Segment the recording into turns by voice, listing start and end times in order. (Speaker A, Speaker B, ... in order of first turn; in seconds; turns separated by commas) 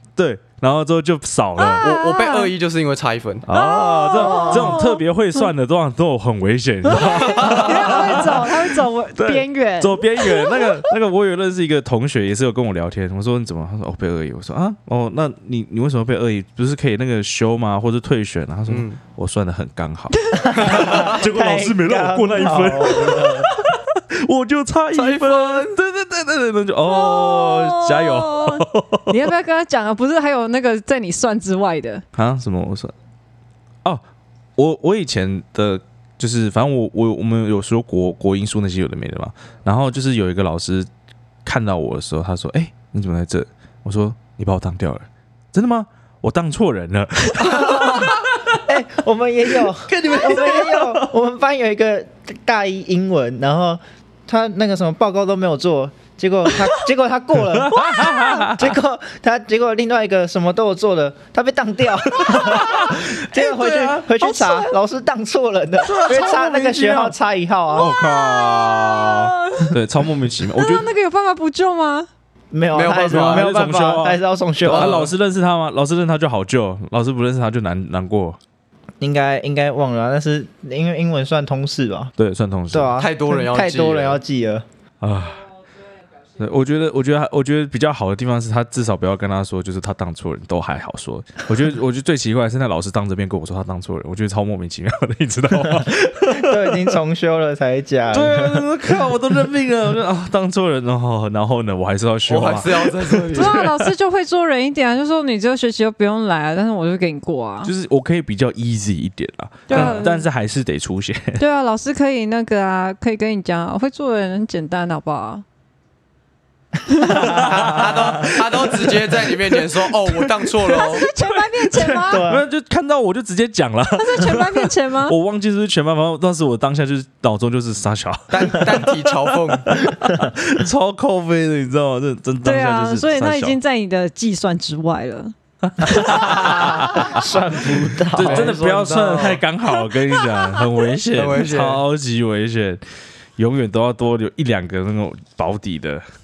Speaker A: 0.2-1.9, Speaker B: 1.6-2.5, Speaker C: 1.8-3.5, Speaker A: 3.4-29.1, Speaker B: 3.5-5.5, Speaker B: 6.8-10.8, Speaker C: 6.9-8.2, Speaker C: 18.7-19.0, Speaker B: 20.1-20.6, Speaker D: 20.4-23.5, Speaker C: 20.6-21.2, Speaker B: 22.9-23.4, Speaker C: 24.9-25.8, Speaker B: 26.8-32.0, Speaker A: 32.1-32.9, Speaker A: 34.6-40.9, Speaker A: 41.4-48.6, Speaker D: 47.4-48.1, Speaker B: 47.6-48.0, Speaker D: 48.6-67.9, Speaker A: 49.8-51.1, Speaker A: 57.5-58.7, Speaker A: 62.1-64.0, Speaker B: 64.2-64.8, Speaker A: 65.8-67.2, Speaker A: 67.7-70.9, Speaker B: 67.7-69.7, Speaker B: 70.5-72.1, Speaker D: 72.5-75.0, Speaker C: 72.7-73.5, Speaker A: 73.1-78.4, Speaker C: 74.7-75.1, Speaker D: 79.0-82.1, Speaker A: 82.2-83.0, Speaker D: 82.7-84.7, Speaker C: 83.0-84.2, Speaker A: 85.0-85.5, Speaker A: 86.4-96.9, Speaker D: 95.7-98.7, Speaker A: 98.1-103.9, Speaker C: 102.3-103.6, Speaker B: 103.3-107.7, Speaker A: 107.6-111.4, Speaker B: 109.7-110.3, Speaker C: 109.7-110.0, Speaker B: 111.4-115.4, Speaker B: 116.9-117.3, Speaker A: 117.0-133.6, Speaker C: 117.2-121.1, Speaker B: 120.7-122.3, Speaker D: 122.0-122.4, Speaker B: 123.9-125.2, Speaker C: 128.3-129.7, Speaker D: 130.0-130.3, Speaker B: 132.4-136.7, Speaker A: 135.7-142.8, Speaker D: 136.1-138.6, Speaker C: 138.2-139.4, Speaker B: 140.1-140.7, Speaker C: 141.1-141.8, Speaker A: 143.4-146.0